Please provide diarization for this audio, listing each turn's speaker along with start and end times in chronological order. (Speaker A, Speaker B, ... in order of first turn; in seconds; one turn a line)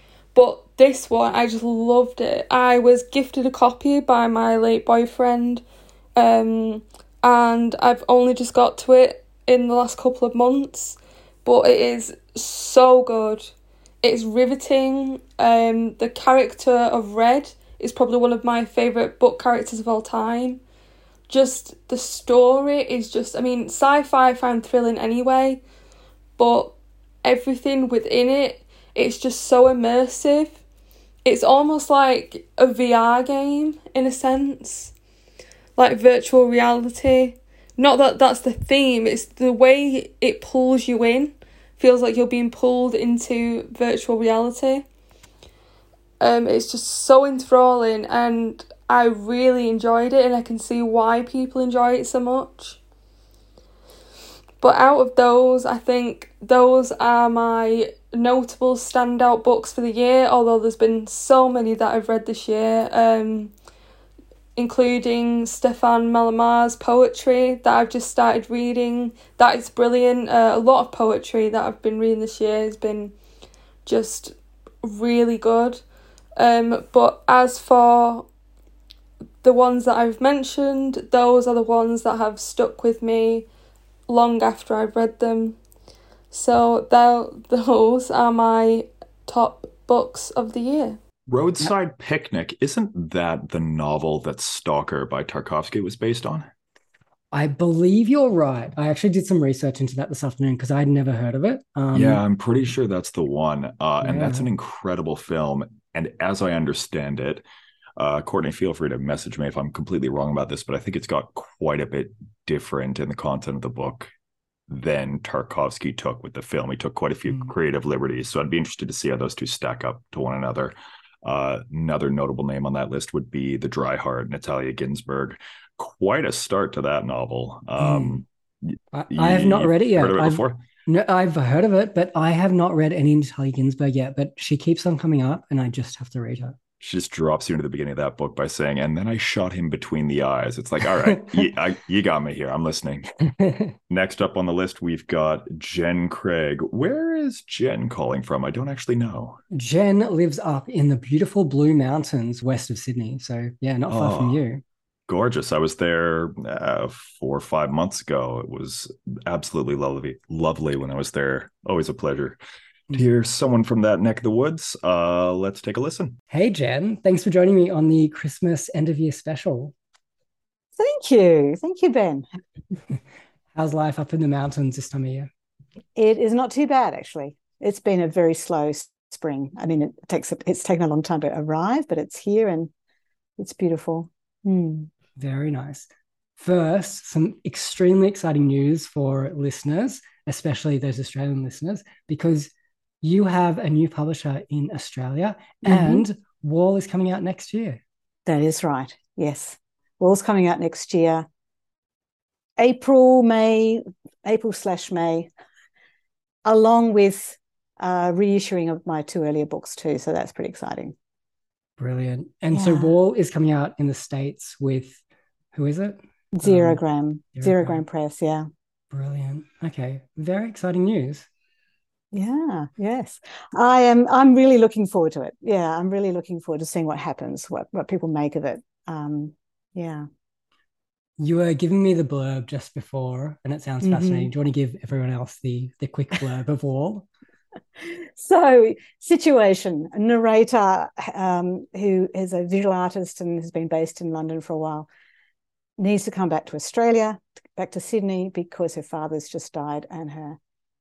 Speaker A: 0.3-5.6
Speaker A: 6.1-20.6
Speaker A: 21.3-25.6
Speaker A: 26.4-30.6
Speaker A: 31.2-34.9
Speaker A: 35.8-44.8
Speaker A: 46.2-52.8
Speaker A: 54.6-63.5
Speaker A: 64.5-73.1
Speaker A: 73.8-75.8
Speaker A: 76.3-78.3
Speaker A: 79.4-83.5
Speaker A: 84.1-85.6
Speaker A: 86.3-91.0
Speaker B: 91.3-96.5
Speaker C: 97.3-102.2
Speaker B: 101.9-107.4
Speaker C: 104.0-104.5
Speaker B: 108.0-114.1
Speaker B: 114.7-130.6
Speaker C: 127.8-128.2
Speaker C: 128.9-136.6
Speaker B: 136.8-143.1
Speaker C: 141.2-141.4
Speaker C: 143.4-143.7
Speaker B: 143.9-149.4
Speaker C: 149.5-154.6
Speaker B: 153.9-154.4
Speaker B: 155.1-162.4
Speaker B: 162.9-166.2
Speaker C: 166.3-169.7
Speaker D: 170.8-172.2
Speaker C: 173.5-175.3
Speaker D: 175.9-182.7
Speaker D: 183.4-184.9
Speaker C: 185.2-185.9
Speaker C: 186.4-192.5
Speaker C: 193.0-197.8
Speaker D: 195.6-196.0
Speaker D: 198.2-201.3
Speaker D: 202.6-205.3
Speaker D: 206.4-210.9
Speaker C: 211.8-215.0
Speaker D: 212.5-213.0
Speaker C: 215.5-216.8
Speaker D: 216.3-218.5
Speaker C: 217.3-217.8
Speaker C: 218.9-221.2
Speaker D: 222.1-230.1
Speaker C: 231.2-237.1
Speaker D: 233.8-234.3
Speaker D: 237.9-244.9
Speaker D: 245.8-250.4